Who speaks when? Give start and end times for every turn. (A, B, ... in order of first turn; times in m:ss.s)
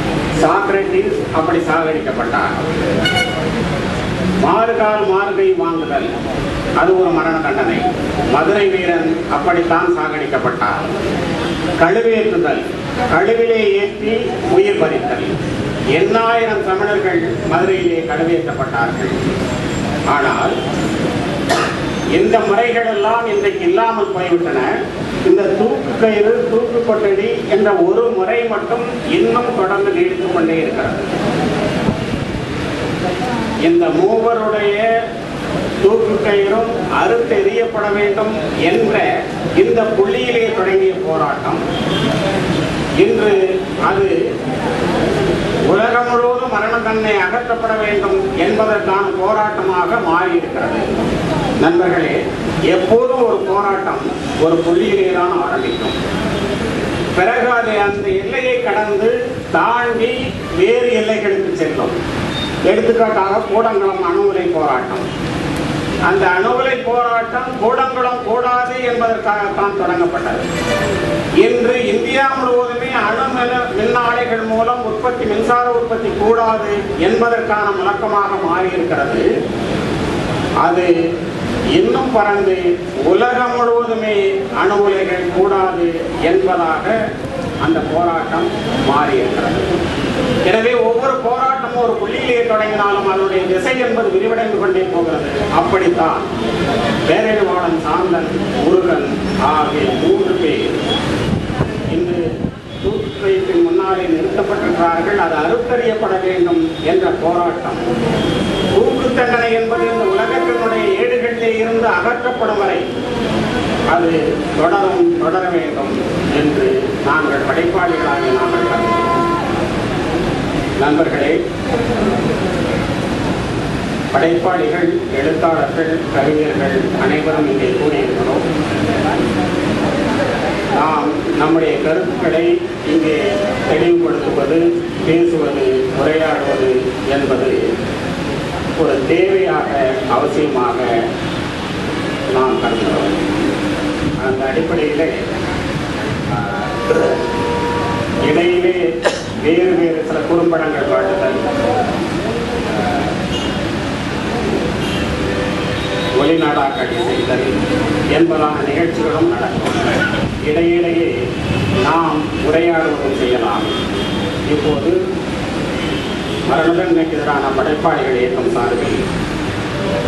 0:00.4-0:02.6 A
0:04.4-0:06.1 A
0:06.8-0:10.9 A
0:11.8-0:15.4 A
0:15.9-0:19.2 A
0:20.1-0:20.5 A
0:22.1-0:24.7 A
0:25.3-0:31.1 A
0:33.6-0:34.9 A
0:35.8-0:39.1 A
0:39.6-0:41.6 A
0:43.0-0:44.2 A
0:45.7-0:50.9 A
0:51.6-0:52.2 A
0:52.7-0:56.0 A
0:57.1-1:02.0 A
1:02.7-1:05.0 A
1:06.1-1:10.4 A
1:11.4-1:19.2 A
1:20.6-1:20.9 A
1:21.7-1:27.0 A
1:27.6-1:29.7 A
1:30.4-1:36.2 A
1:37.1-1:40.7 A
1:41.9-1:42.2 A
1:42.8-1:47.8 A
1:48.7-1:52.8 A
1:53.9-1:59.2 A
2:00.8-2:01.4 A
2:04.1-2:08.5 A
2:10.7-2:17.6 A
2:18.8-2:20.9 A
2:22.3-2:23.2 A
2:24.2-2:25.2 A
2:26.3-2:27.1 A
2:28.2-2:28.9 A
2:29.4-2:31.5 A
2:32.7-2:33.0 A
2:36.2-2:37.5 A
2:38.1-2:41.1 A
2:41.8-2:43.8 A
2:44.5-2:45.0 A
2:46.5-2:49.0 A